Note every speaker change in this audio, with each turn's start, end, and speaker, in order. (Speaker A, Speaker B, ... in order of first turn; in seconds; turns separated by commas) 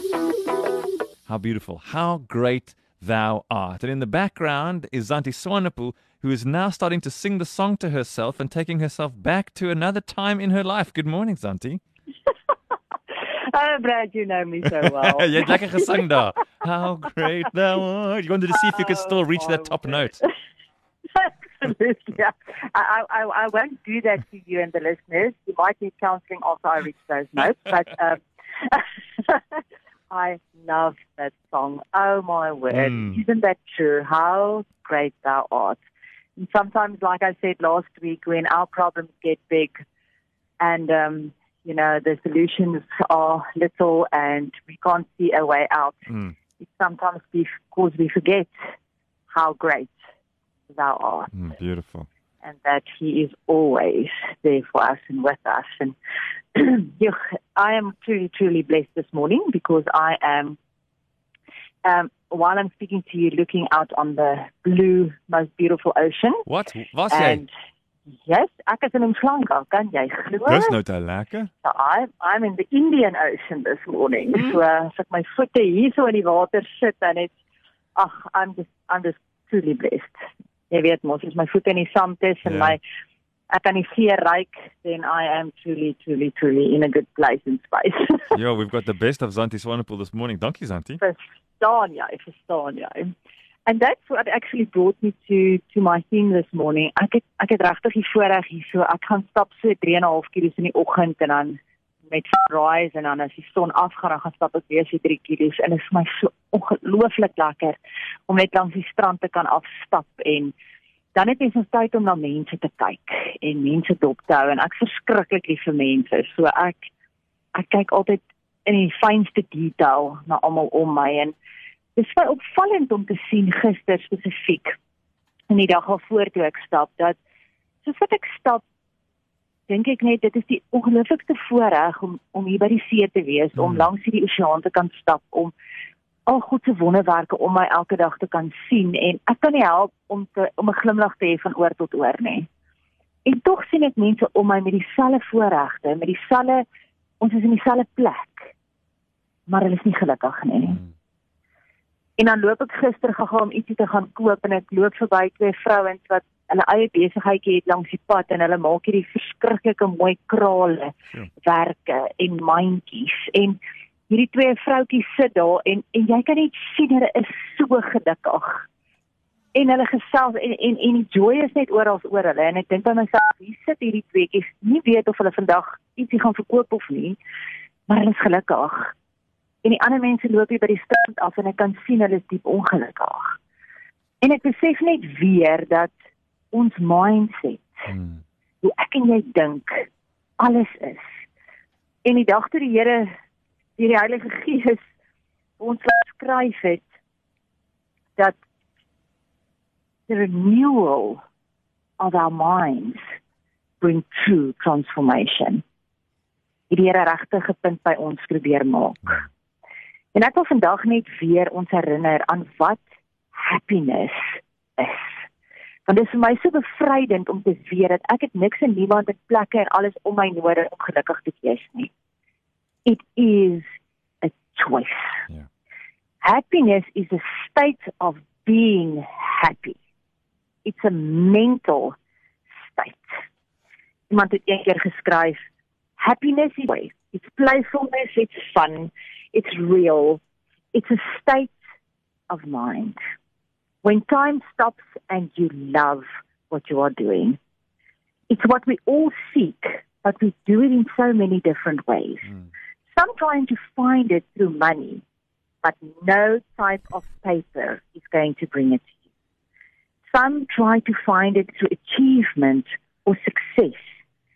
Speaker A: 1.3-11.8, Speaker B: 13.4-16.0, Speaker A: 14.7-20.2, Speaker B: 19.0-20.3, Speaker B: 21.2-35.8, Speaker A: 32.7-33.2, Speaker B: 36.4-39.8, Speaker B: 40.6-46.1, Speaker B: 46.6-48.5, Speaker B: 49.3-50.0, Speaker B: 50.7-51.3, Speaker A: 51.3-52.1, Speaker B: 52.5-56.0, Speaker B: 56.5-60.6, Speaker B: 61.8-66.4, Speaker A: 66.5-67.4, Speaker B: 67.1-67.5, Speaker B: 68.2-70.8, Speaker A: 70.5-71.5, Speaker B: 71.6-77.3, Speaker B: 78.0-80.2, Speaker B: 80.7-82.8, Speaker A: 82.5-82.8, Speaker B: 83.5-88.3, Speaker A: 88.3-91.0, Speaker B: 91.0-93.1, Speaker B: 93.7-110.5, Speaker B: 111.1-116.9, Speaker B: 117.5-121.3, Speaker B: 122.0-124.8, Speaker B: 125.5-127.2, Speaker B: 127.8-128.6, Speaker B: 129.7-135.5, Speaker A: 133.6-133.9, Speaker B: 136.3-142.5, Speaker B: 143.2-146.7, Speaker B: 147.2-148.5, Speaker B: 149.5-150.8, Speaker B: 152.2-163.6, Speaker B: 164.1-168.6, Speaker B: 169.6-177.2, Speaker B: 177.9-178.9, Speaker B: 179.6-183.3, Speaker B: 184.2-185.9, Speaker B: 186.5-187.9, Speaker A: 187.9-188.2, Speaker B: 188.6-189.9, Speaker B: 190.4-191.2, Speaker B: 192.1-193.1, Speaker B: 193.8-194.8, Speaker B: 195.6-196.8, Speaker B: 200.1-201.2, Speaker B: 202.0-203.0, Speaker B: 203.8-205.6, Speaker B: 206.7-209.2, Speaker B: 210.1-215.2, Speaker B: 215.9-221.9, Speaker B: 222.8-223.7, Speaker B: 224.2-225.2, Speaker B: 226.2-229.8, Speaker B: 230.7-232.0, Speaker B: 232.7-233.0, Speaker B: 234.1-235.4, Speaker B: 236.0-240.2, Speaker B: 240.7-241.6, Speaker B: 242.3-243.0, Speaker B: 243.8-247.4, Speaker B: 248.3-252.3, Speaker B: 252.9-255.0, Speaker B: 255.6-258.9, Speaker B: 260.1-263.9